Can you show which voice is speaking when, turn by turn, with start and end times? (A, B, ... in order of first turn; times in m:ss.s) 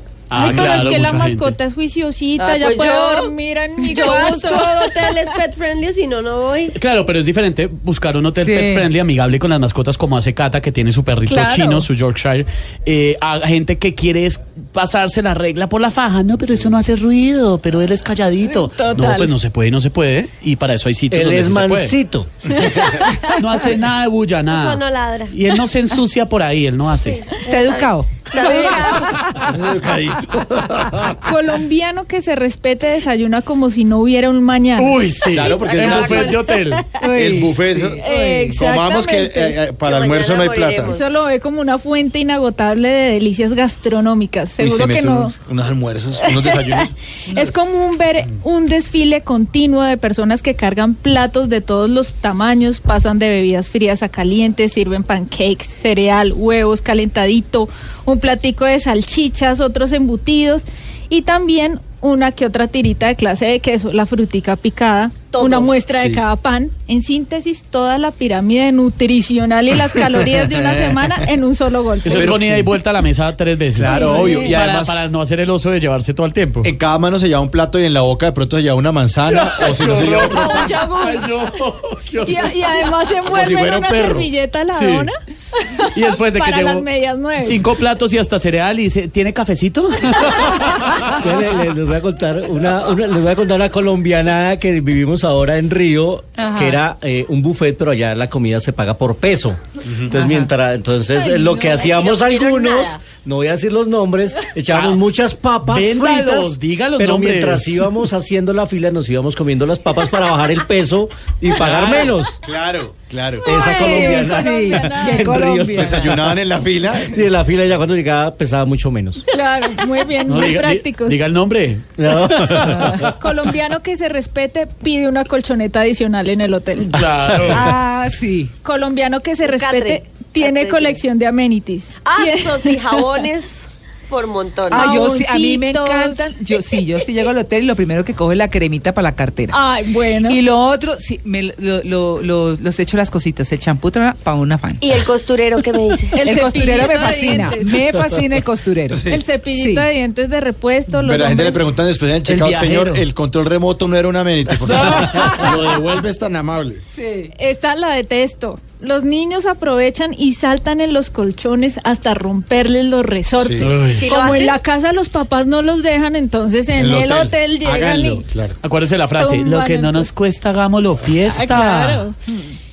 0:00.3-0:01.6 A
0:00.3-0:05.1 B
0:02.4-0:06.8 C
0:06.8-0:22.0 A
0:08.4-0:08.9 D
0:11.3-0:11.9 B
0:18.7-0:19.3 B
0:21.1-0:22.3 E
0:22.8-0:23.1 B
0:23.2-0:27.3 A
0:24.5-0:25.4 C
0:27.0-0:29.2 C
0:27.4-0:28.9 D
0:28.4-0:29.0 B
0:29.4-0:31.2 F
0:31.2-0:35.0 B
0:34.8-0:36.9 A
0:35.3-0:36.1 F
0:35.4-0:36.5 C
0:37.0-0:38.6 D
0:37.1-0:40.9 F
0:38.0-0:39.6 B
0:39.8-0:41.2 C
0:40.9-0:45.4 B
0:44.6-0:46.9 F
0:46.3-1:12.4 B
0:47.3-0:47.6 D
1:05.3-1:05.7 C
1:06.0-1:06.2 F
1:12.0-1:16.7 A
1:12.1-1:12.7 F
1:13.8-1:15.0 F
1:13.8-1:14.5 B
1:16.6-1:20.8 F
1:19.3-1:22.7 A
1:20.3-1:21.3 B
1:22.2-1:27.7 B
1:23.3-1:24.3 F
1:24.7-1:25.1 A
1:25.9-1:26.8 A
1:27.4-1:31.2 A
1:31.1-1:52.4 E
1:36.4-1:36.8 D
1:39.9-1:40.1 F
1:40.2-1:40.5 D
1:41.2-1:43.0 C
1:44.7-1:45.0 A
1:45.6-1:47.9 A
1:51.6-1:53.6 F
1:53.4-1:55.4 B
1:53.4-1:56.4 E
1:53.6-1:56.1 D
1:55.8-1:57.2 F
1:57.0-1:59.2 E
1:59.3-2:01.2 B
2:00.3-2:03.1 A
2:02.0-2:03.0 E
2:03.0-2:07.0 B
2:06.8-2:07.7 A
2:07.3-2:07.6 E
2:07.5-2:08.5 D
2:08.6-2:13.2 B
2:09.4-2:11.0 C
2:12.0-2:15.1 C
2:14.7-2:19.6 D
2:14.7-2:16.3 B
2:19.5-2:20.4 B
2:20.2-2:24.9 D
2:24.8-2:26.2 C
2:26.1-2:27.9 B
2:26.2-2:29.9 D
2:28.9-2:29.2 F
2:29.1-2:31.8 B
2:30.9-2:36.8 F
2:32.3-2:33.0 A
2:34.6-2:35.5 A
2:36.9-2:37.3 D
2:37.4-2:48.3 B
2:43.4-2:43.7 F
2:43.6-2:44.3 A
2:44.0-2:44.6 C
2:46.8-2:48.6 F
2:48.6-2:52.1 A
2:49.2-2:50.1 B
2:51.2-2:52.2 B